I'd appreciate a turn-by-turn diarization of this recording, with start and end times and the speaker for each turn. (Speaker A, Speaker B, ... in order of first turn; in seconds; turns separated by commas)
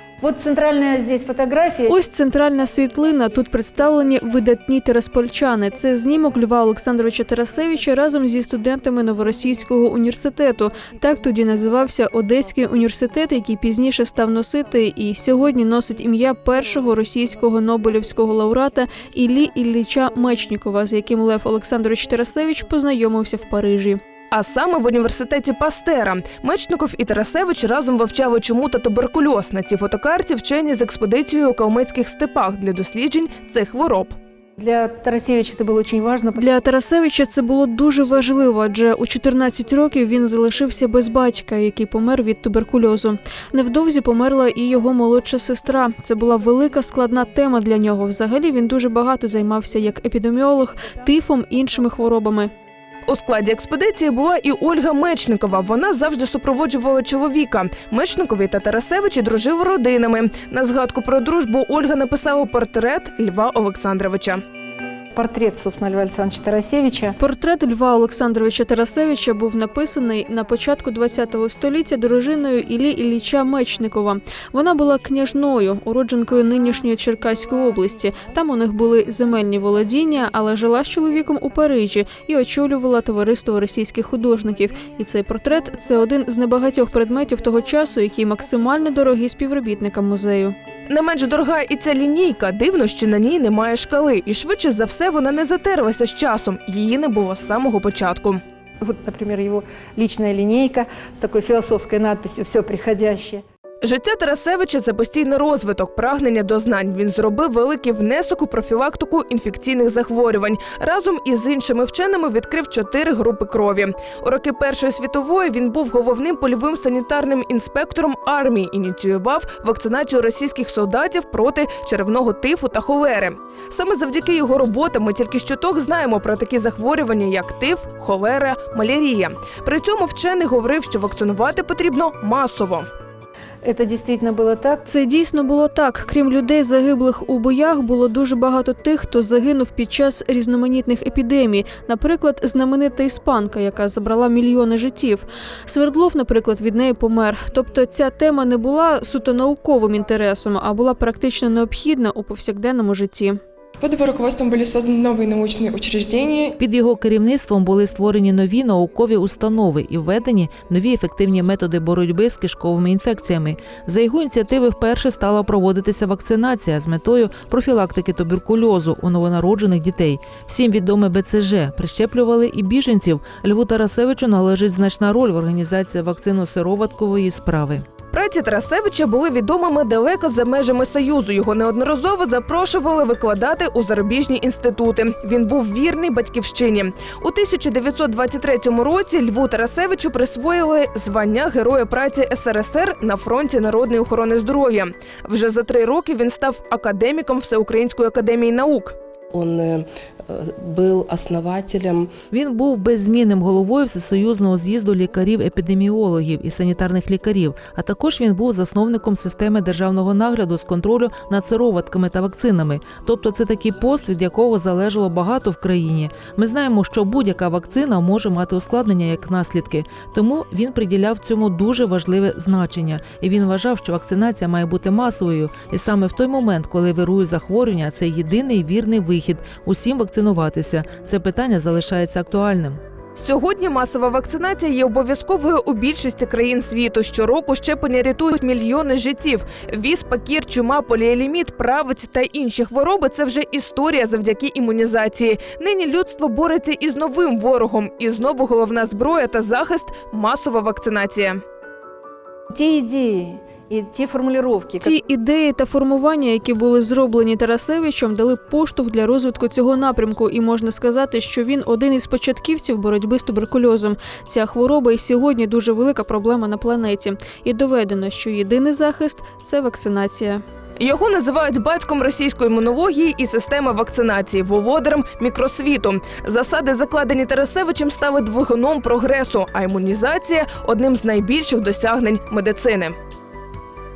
Speaker A: 0.2-1.9, Speaker B: 1.9-24.0, Speaker C: 24.3-34.2, Speaker A: 34.6-36.4, Speaker B: 36.4-52.5, Speaker C: 53.1-64.4, Speaker A: 65.1-67.1, Speaker B: 67.2-90.6, Speaker C: 90.9-98.4, Speaker A: 98.8-103.4, Speaker C: 103.8-132.9, Speaker A: 133.6-134.8, Speaker B: 134.8-153.4, Speaker D: 153.8-156.6, Speaker E: 156.6-177.9, Speaker C: 178.1-199.0, Speaker F: 199.3-202.1, Speaker E: 202.3-232.8, Speaker C: 233.2-251.4, Speaker A: 252.5-254.9, Speaker B: 254.8-270.4, Speaker C: 270.8-283.0